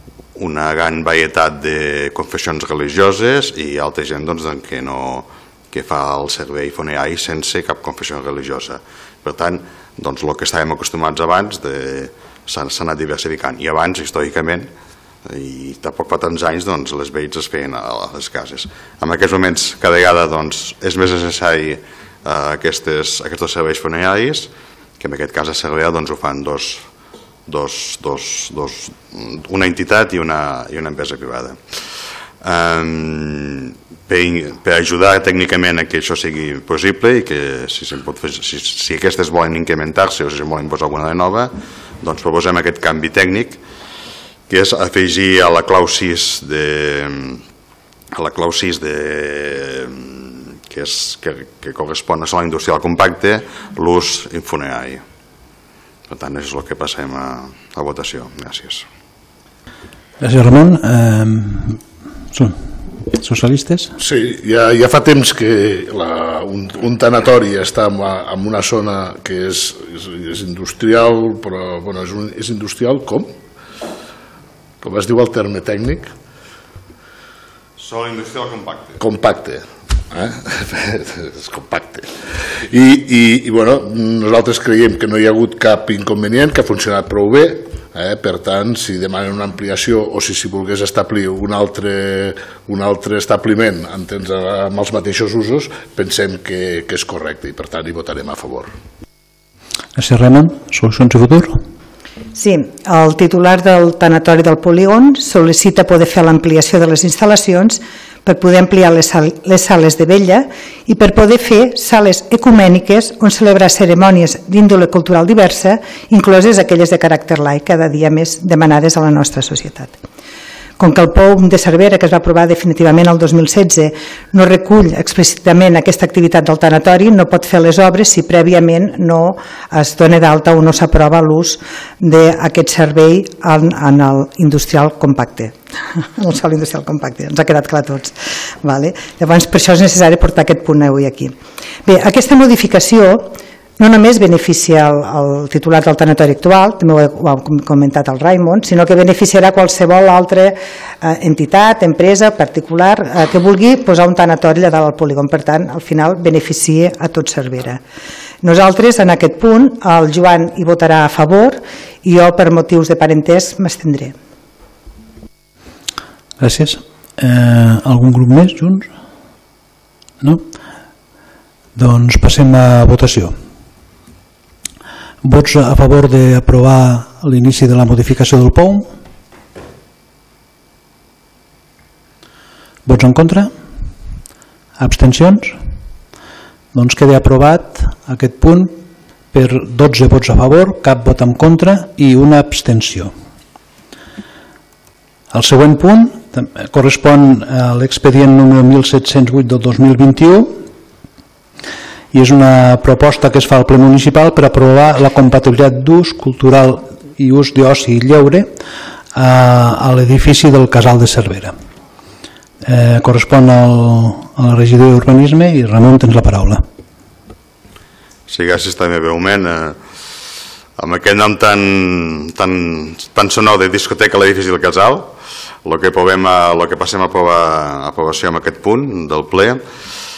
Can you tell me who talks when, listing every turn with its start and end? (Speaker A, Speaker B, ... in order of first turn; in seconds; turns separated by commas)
Speaker A: 0.4-14.7, Speaker A: 15.3-26.9, Speaker A: 27.5-43.6, Speaker A: 44.5-47.4, Speaker A: 48.1-55.0, Speaker A: 56.1-58.9, Speaker B: 60.2-64.0, Speaker C: 64.0-73.3, Speaker C: 74.8-76.1, Speaker A: 77.8-79.0, Speaker C: 79.0-98.7, Speaker B: 100.0-101.6, Speaker D: 102.3-120.0, Speaker D: 120.8-141.3, Speaker D: 141.8-157.8, Speaker D: 158.4-164.2, Speaker B: 166.4-168.9, Speaker B: 171.8-173.3, Speaker B: 175.2-178.9, Speaker B: 182.9-183.5, Speaker B: 184.8-185.6, Speaker B: 186.7-188.7, Speaker B: 189.3-193.1, Speaker B: 195.3-200.6, Speaker B: 202.1-208.5, Speaker B: 209.2-211.5, Speaker B: 212.6-216.6, Speaker A: 218.3-219.8, Speaker A: 220.8-229.6